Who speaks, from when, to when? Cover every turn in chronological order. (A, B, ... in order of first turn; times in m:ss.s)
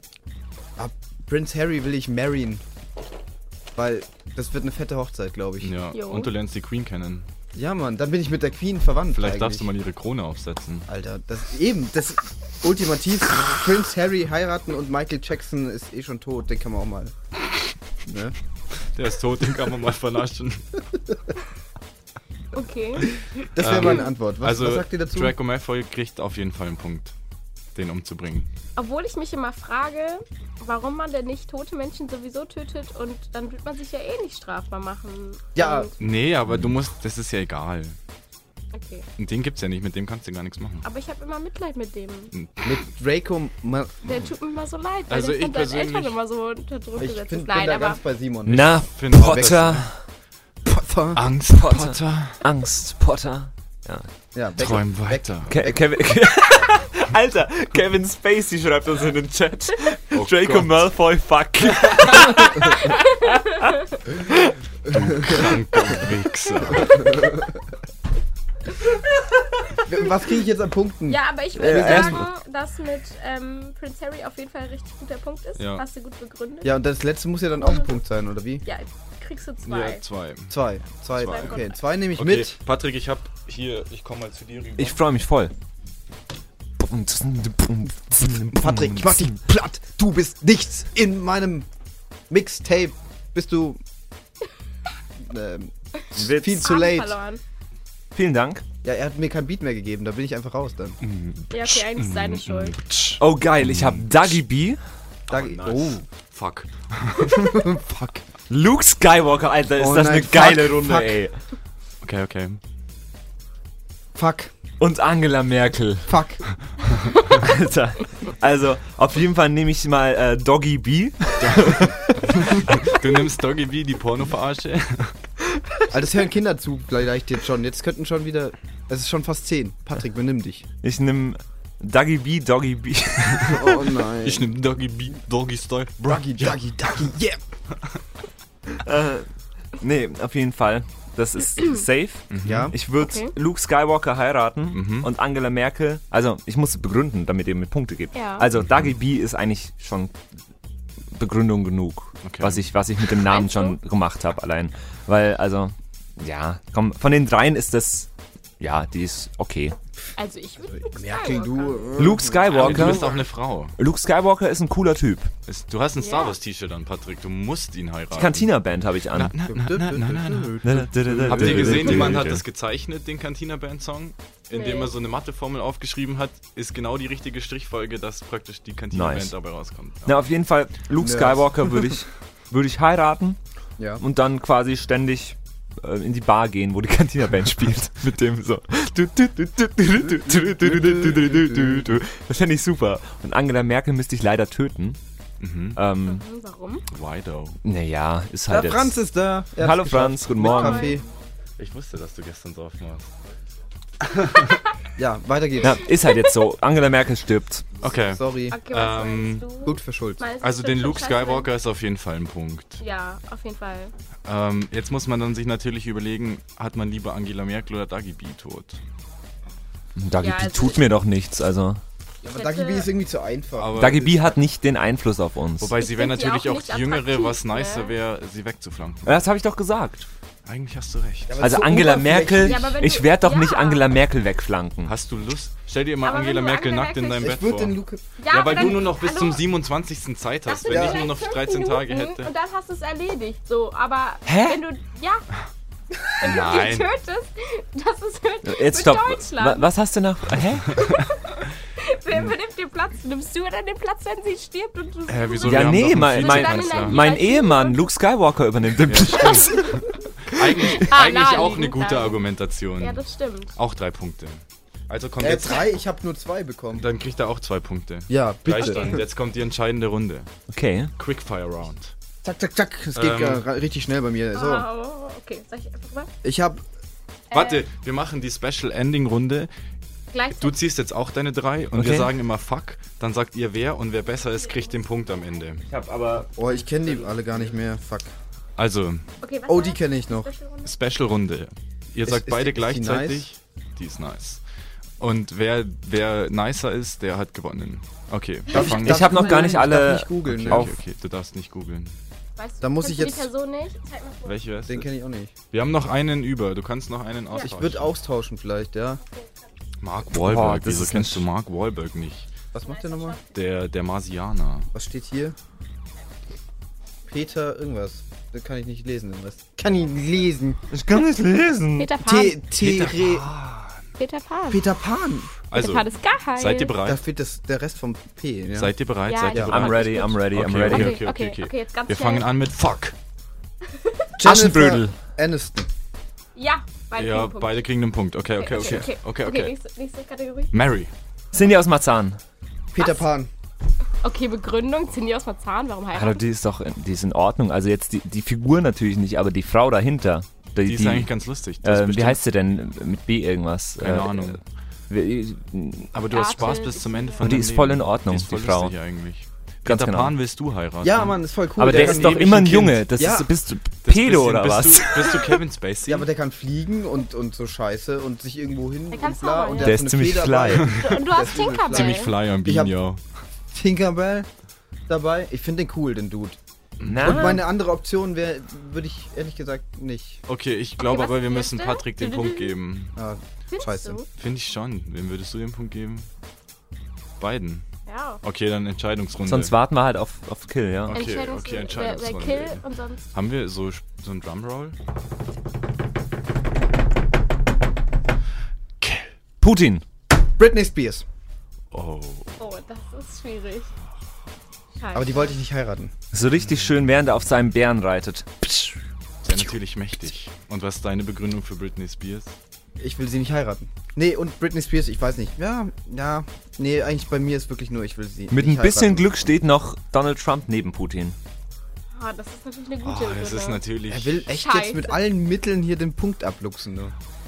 0:00.8-0:02.6 A
0:03.7-0:05.7 A
0:05.6-0:07.3 B
0:05.9-0:06.3 C
0:07.5-0:09.7 A
0:09.1-0:10.9 B
0:10.9-0:17.1 A
0:18.0-0:18.4 A
0:18.9-0:20.8 B
0:22.5-0:24.0 C
0:23.5-0:25.4 A
0:23.6-0:27.1 B
0:27.7-0:28.5 B
0:28.8-0:35.9 C
0:35.5-0:35.9 A
0:36.0-0:38.0 B
0:38.7-0:39.1 C
0:39.2-0:40.8 B
0:40.8-0:42.3 C
0:42.3-0:42.8 B
0:42.6-0:44.1 A
0:44.0-0:48.0 C
0:45.1-0:46.1 B
0:47.0-0:49.8 A
0:48.5-0:50.0 D
0:48.9-0:49.9 B
0:50.6-0:51.2 A
0:51.1-0:52.4 B
0:51.5-0:54.1 D
0:54.3-0:55.9 A
0:54.6-0:55.5 B
0:55.5-1:05.5 D
1:00.1-1:00.8 B
1:02.8-1:03.4 C
1:04.9-1:05.5 A
1:04.9-1:07.0 B
1:06.8-1:07.5 A
1:09.8-1:12.2 A
1:11.1-1:16.7 C
1:11.6-1:12.3 D
1:15.6-1:15.8 B
1:16.6-1:18.6 A
1:17.6-1:17.9 C
1:18.6-1:20.0 C
1:19.6-1:20.6 B
1:20.5-1:22.6 A
1:21.1-1:25.0 B
1:21.2-1:21.8 C
1:24.8-1:25.5 D
1:26.8-1:29.2 D
1:28.2-1:31.7 A
1:32.3-1:33.8 A
1:35.2-1:37.2 A
1:36.2-1:36.5 D
1:36.3-1:37.4 C
1:38.1-1:38.6 D
1:38.8-1:41.0 A
1:41.0-1:41.8 D
1:41.5-1:42.8 C
1:41.9-1:44.4 B
1:43.2-1:45.9 D
1:45.3-1:46.0 A
1:46.3-1:47.3 B
1:47.3-1:48.2 A
1:48.5-1:51.4 D
1:49.8-1:51.2 A
1:52.0-1:52.6 B
1:54.1-1:54.5 A
1:54.8-1:56.2 D
1:56.1-1:56.4 A
1:57.3-2:02.1 D
2:01.4-2:05.2 B
2:05.9-2:10.6 A
2:10.8-2:14.0 D
2:13.4-2:14.5 A
2:14.2-2:17.0 B
2:16.0-2:17.4 A
2:18.8-2:19.2 D
2:19.8-2:30.2 D
2:22.3-2:22.7 B
2:22.4-2:22.7 A
2:23.0-2:23.3 C
2:24.7-2:25.1 B
2:28.1-2:28.5 C
2:28.6-2:28.9 B
2:31.1-2:38.1 D
2:32.2-2:32.6 B
2:33.2-2:33.8 C
2:38.6-2:39.8 D
2:40.2-2:42.0 C
2:40.7-2:43.2 A
2:42.0-2:43.2 D
2:42.5-2:43.8 B
2:43.8-2:45.3 D
2:45.4-2:48.5 B
2:46.0-2:46.4 C
2:48.1-2:49.3 D
2:49.1-3:00.2 B
2:49.4-2:52.3 A
2:50.6-2:52.4 D
2:54.5-2:54.9 C
2:58.9-2:59.3 D
3:00.0-3:03.4 D
3:01.0-3:01.9 A
3:04.0-3:15.0 D
3:10.0-3:12.0 A
3:15.4-3:15.8 B
3:15.7-3:16.2 D
3:16.0-3:16.8 C
3:16.9-3:17.6 B
3:17.6-3:19.0 D
3:18.5-3:21.0 A
3:19.6-3:21.0 D
3:20.4-3:21.0 C
3:21.6-3:23.2 B
3:24.0-3:24.6 B
3:25.0-3:25.8 A
3:25.6-3:27.8 D
3:27.8-3:29.5 B
3:28.1-3:28.6 A
3:28.5-3:31.5 C
3:29.6-3:30.2 A
3:30.4-3:32.8 B
3:32.8-3:33.9 C
3:34.2-3:38.8 B
3:40.0-3:41.8 D
3:40.2-3:41.0 C
3:42.2-3:42.9 C
3:42.2-3:43.8 A
3:43.6-3:44.4 B
3:43.8-3:45.7 D
3:45.6-3:49.2 B
3:45.7-3:47.9 C
3:49.0-3:50.0 D
3:50.4-3:51.5 B
3:51.3-3:52.8 A
3:51.4-3:54.9 D
3:52.4-3:53.8 C
3:54.8-4:02.3 B
3:56.0-3:57.3 C
3:57.2-3:58.0 A
3:58.2-3:59.4 C
4:00.4-4:05.2 C
4:00.7-4:01.0 A
4:04.2-4:04.6 D
4:06.2-4:09.7 C
4:06.2-4:06.9 B
4:08.4-4:10.8 D
4:10.7-4:11.0 B
4:10.8-4:11.1 C
4:11.8-4:17.8 C
4:15.1-4:17.1 B
4:15.4-4:19.9 D
4:18.8-4:23.0 B
4:19.2-4:19.6 C
4:20.7-4:22.2 C
4:22.8-4:23.6 C
4:23.5-4:25.8 B
4:25.2-4:26.9 A
4:26.8-4:30.3 B
4:28.1-4:29.0 A
4:28.6-4:29.0 C
4:30.5-4:30.9 D
4:31.0-4:31.9 B
4:32.2-4:34.7 A
4:32.9-4:33.4 B
4:34.3-4:36.1 C
4:36.2-4:36.6 A
4:37.3-4:37.6 C
4:37.3-4:39.5 B
4:40.1-4:40.6 C
4:40.3-4:45.6 B
4:41.7-4:42.2 D
4:44.0-4:45.4 C
4:45.7-4:47.0 D
4:46.4-4:48.1 A
4:48.6-4:49.1 B
4:49.2-4:50.7 C
4:49.5-4:50.3 A
4:50.6-4:54.4 B
4:52.0-4:53.2 A
4:55.0-4:59.4 B
4:58.5-5:00.6 A
4:58.6-5:00.8 D
5:00.3-5:02.0 B
5:02.4-5:04.4 C
5:02.6-5:03.3 A
5:04.2-5:04.9 B
5:04.6-5:05.3 A
5:05.5-5:07.9 B
5:07.4-5:09.0 A
5:09.8-5:12.3 B
5:10.1-5:11.3 D
5:12.5-5:13.2 A
5:12.6-5:13.4 C
5:13.3-5:14.7 B
5:14.7-5:15.4 A
5:17.1-5:20.6 A
5:20.7-5:21.9 D
5:21.8-5:22.4 C
5:22.0-5:23.3 A
5:22.6-5:23.8 B
5:24.0-5:24.6 C
5:24.5-5:25.3 A
5:25.5-5:27.0 B
5:25.5-5:26.8 C
5:26.8-5:28.7 A
5:28.6-5:32.9 B
5:29.0-5:32.3 C
5:29.4-5:31.0 D
5:33.7-5:34.0 C
5:34.2-5:35.7 A
5:34.2-5:35.0 D
5:36.4-5:37.7 C
5:36.9-5:39.5 B
5:38.4-5:40.5 C
5:40.5-5:40.9 B
5:41.3-5:42.2 D
5:42.7-5:43.3 A
5:42.8-5:43.0 C
5:44.0-5:46.2 C
5:45.9-5:51.1 D
5:50.6-5:52.2 B
5:51.6-5:54.4 D
5:53.8-5:54.4 B
5:54.9-5:56.4 D
5:55.9-6:02.6 B
5:56.1-5:57.2 C
5:57.2-5:58.8 D
5:59.6-6:00.2 D
6:00.8-6:03.3 A
6:01.6-6:05.4 D
6:03.8-6:06.1 B
6:05.8-6:12.7 A
6:08.9-6:09.8 C
6:09.6-6:10.8 D
6:10.6-6:11.0 B
6:10.8-6:12.1 C
6:11.6-6:13.0 B
6:13.5-6:14.3 A
6:14.9-6:16.4 A
6:16.8-6:17.3 B
6:16.8-6:17.4 D
6:17.0-6:20.2 A
6:20.3-6:23.0 B
6:20.8-6:22.6 C
6:22.9-6:24.0 A
6:23.5-6:24.0 C
6:24.1-6:26.1 B
6:27.2-6:27.6 B
6:27.8-6:28.2 C
6:28.2-6:29.5 B
6:29.2-6:31.0 D
6:30.9-6:34.8 B
6:30.9-6:33.1 C
6:38.8-6:39.1 B
6:39.4-6:39.8 D
6:40.4-6:41.0 A
6:41.7-6:42.4 B
6:42.4-6:43.7 C
6:44.8-6:45.4 C
6:44.9-6:45.9 A
6:46.1-6:48.7 D
6:49.2-6:52.4 B
6:52.8-6:59.3 A
6:58.3-7:01.2 D
7:01.9-7:03.6 C
7:02.8-7:04.2 B
7:03.9-7:06.9 A
7:04.3-7:05.0 C